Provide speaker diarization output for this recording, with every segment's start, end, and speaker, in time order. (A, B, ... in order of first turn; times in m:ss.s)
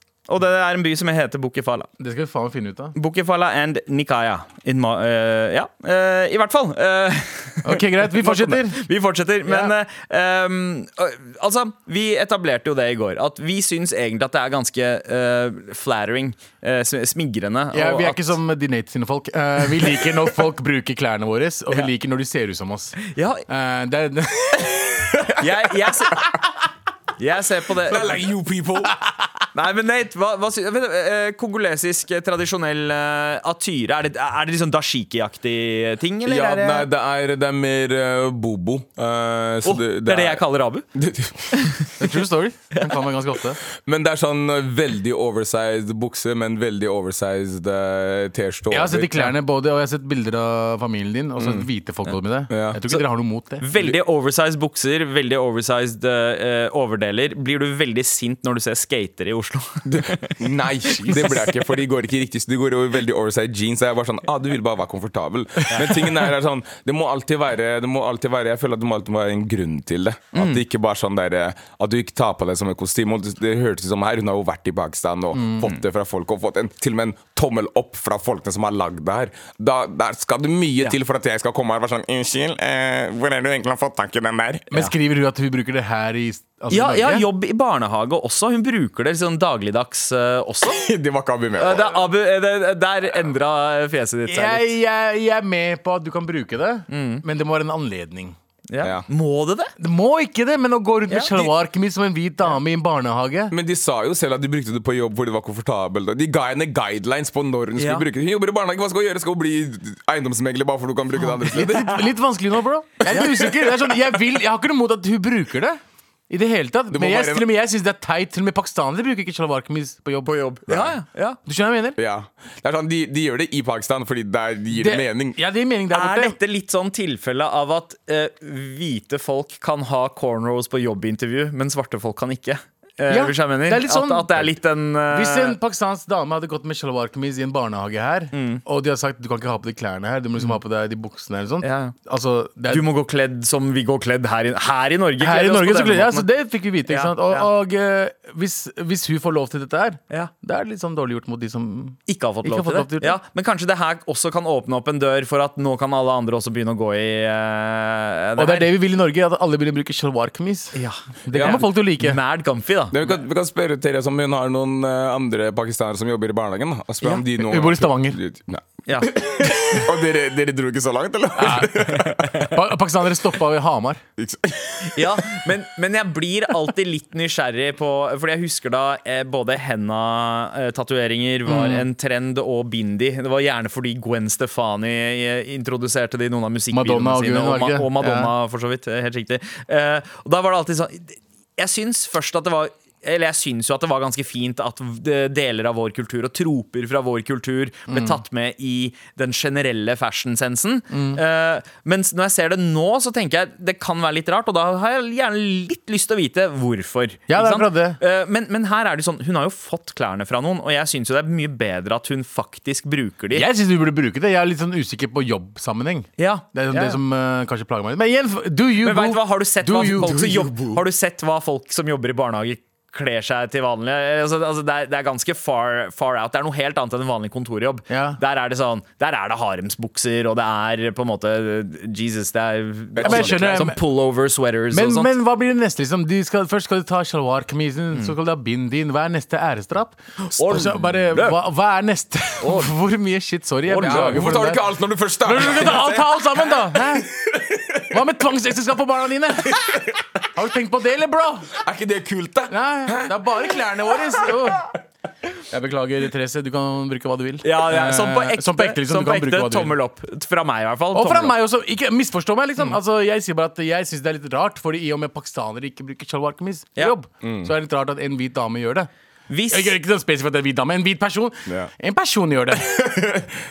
0:00.3-0:01.9 A
0:02.0-0:03.0 B
0:03.0-0:18.4 A
0:07.6-0:08.8 B
0:09.5-0:09.7 B
0:17.7-0:25.3 B
0:23.0-0:23.4 A
0:25.4-0:26.3 A
0:27.2-0:28.2 A
0:27.8-0:29.0 C
0:29.5-0:36.9 A
0:36.3-0:41.8 C
0:39.6-0:40.8 A
0:41.5-0:41.9 A
0:42.0-0:43.6 B
0:43.8-0:49.3 C
0:48.7-0:53.6 B
0:51.4-0:51.7 C
0:52.5-0:52.8 C
0:53.6-1:00.4 A
0:59.9-1:24.7 C
1:00.9-1:01.5 A
1:10.3-1:10.6 A
1:15.4-1:15.6 B
1:24.7-1:27.3 B
1:26.7-1:30.8 A
1:30.6-1:32.0 C
1:31.6-1:34.7 A
1:34.3-1:38.4 B
1:36.9-1:37.2 A
1:38.7-1:39.7 A
1:38.8-1:39.1 C
1:39.8-1:43.6 B
1:41.1-1:41.5 A
1:43.5-1:52.0 C
1:47.8-1:48.0 A
1:51.2-2:00.4 B
1:53.1-1:53.9 C
1:56.9-1:57.5 C
2:00.2-2:01.4 A
2:01.5-2:02.0 B
2:02.0-2:05.4 C
2:04.7-2:06.4 B
2:05.9-2:15.6 A
2:13.1-2:14.6 B
2:15.1-2:22.9 B
2:18.3-2:18.6 A
2:21.6-2:22.0 A
2:22.7-2:26.3 A
2:25.2-2:33.2 B
2:26.9-2:27.5 A
2:32.1-2:38.7 A
2:38.4-2:42.2 B
2:40.7-2:43.0 A
2:41.3-2:41.6 C
2:42.9-2:52.5 C
2:47.2-2:48.2 B
2:48.9-2:49.2 A
2:51.4-2:54.0 B
2:52.0-2:52.3 A
2:54.2-2:55.5 C
2:54.8-3:33.5 A
3:01.5-3:01.9 B
3:06.7-3:08.3 B
3:17.9-3:18.2 B
3:20.9-3:21.2 B
3:27.3-3:28.0 B
3:33.3-3:40.8 B
3:36.2-3:37.0 A
3:38.8-3:55.1 A
3:47.9-3:48.2 B
3:52.9-3:53.6 C
3:53.0-3:53.8 B
3:54.7-4:04.6 B
4:00.2-4:01.4 A
4:02.4-4:02.7 A
4:03.7-4:04.3 A
4:03.8-4:08.0 C
4:05.2-4:07.1 B
4:07.9-4:11.6 B
4:09.5-4:10.0 C
4:11.6-4:13.2 C
4:12.5-4:14.7 B
4:15.5-4:19.8 B
4:17.4-4:21.4 A
4:20.9-4:28.9 B
4:27.2-4:27.5 C
4:29.3-4:29.8 A
4:29.5-4:32.8 B
4:32.7-4:33.4 C